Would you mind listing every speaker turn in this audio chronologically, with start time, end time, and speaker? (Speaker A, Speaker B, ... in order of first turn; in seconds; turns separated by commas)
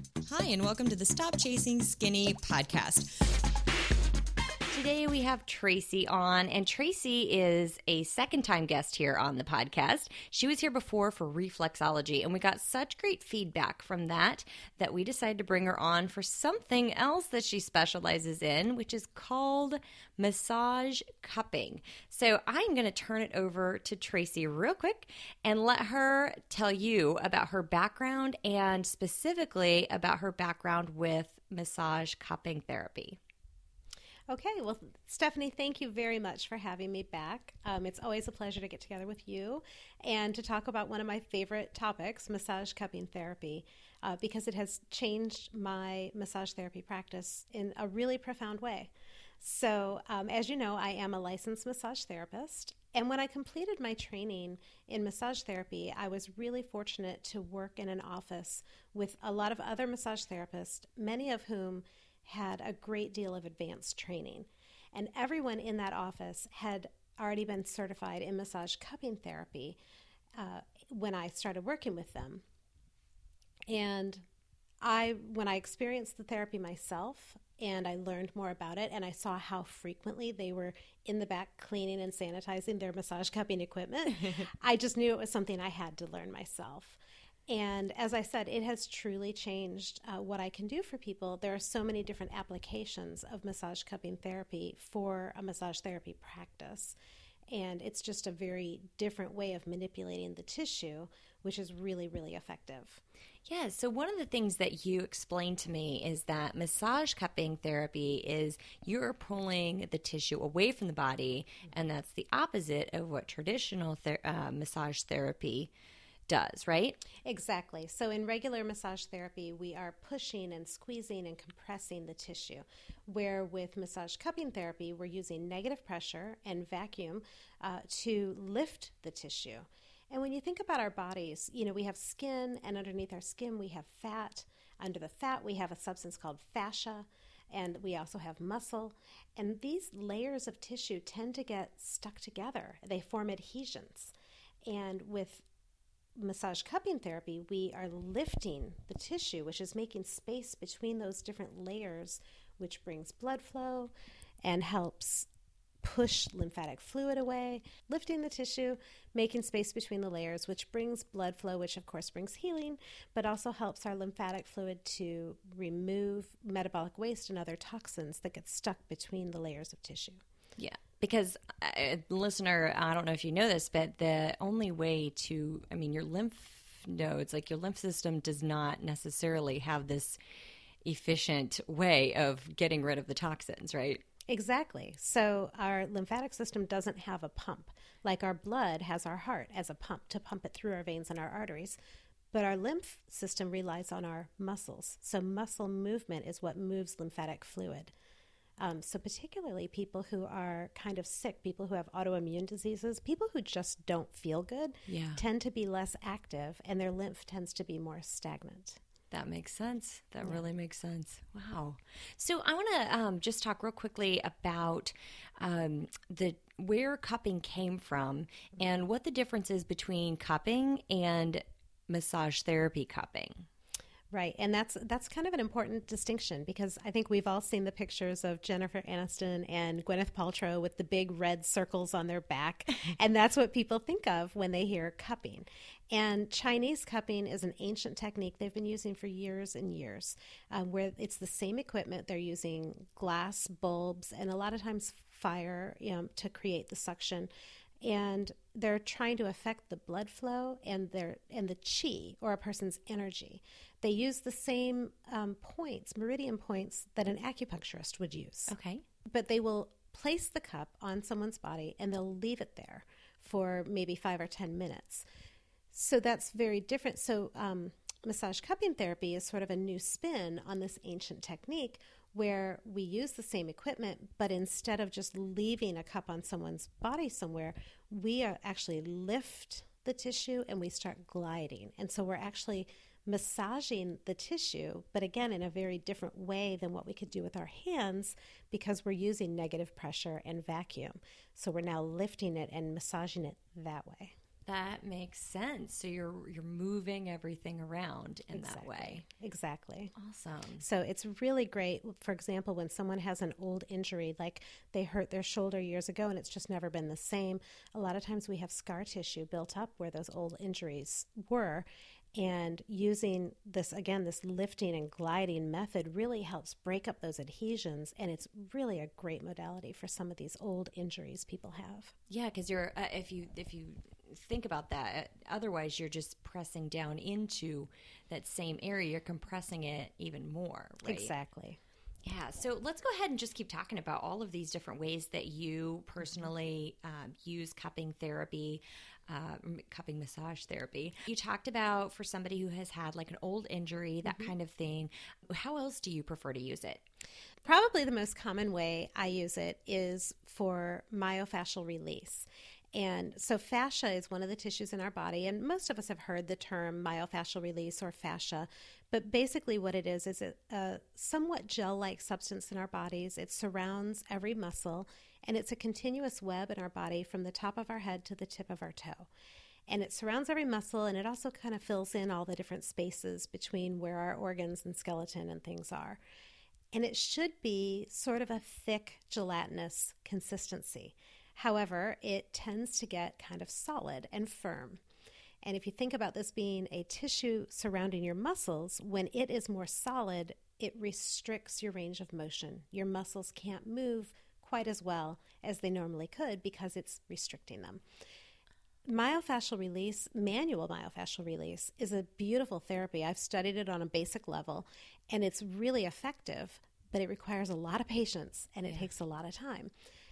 Speaker A: 0.2-3.2, Speaker A: 4.7-33.2, Speaker B: 34.3-69.8, Speaker B: 70.4-72.4, Speaker B: 73.7-74.2, Speaker B: 74.8-97.0, Speaker B: 97.5-103.0, Speaker A: 103.5-115.7, Speaker A: 116.3-117.0, Speaker B: 117.2-144.1, Speaker B: 144.6-145.4, Speaker B: 146.2-155.3, Speaker B: 155.8-170.2, Speaker A: 170.6-180.2, Speaker A: 180.8-184.0, Speaker B: 184.3-191.8, Speaker B: 192.3-197.9, Speaker B: 198.6-208.8, Speaker A: 204.9-205.2, Speaker A: 209.1-223.5, Speaker B: 224.1-247.3, Speaker B: 247.8-258.5, Speaker A: 258.5-258.8, Speaker B: 259.1-265.1, Speaker B: 265.7-294.1, Speaker A: 294.5-299.0, Speaker B: 298.3-299.9, Speaker A: 299.9-300.6, Speaker B: 300.6-321.9, Speaker A: 322.1-331.1, Speaker B: 330.8-331.6, Speaker A: 332.0-346.8, Speaker B: 344.0-344.3, Speaker B: 347.4-369.1, Speaker B: 369.7-376.0, Speaker B: 376.7-384.8, Speaker B: 385.4-397.8, Speaker B: 398.8-409.7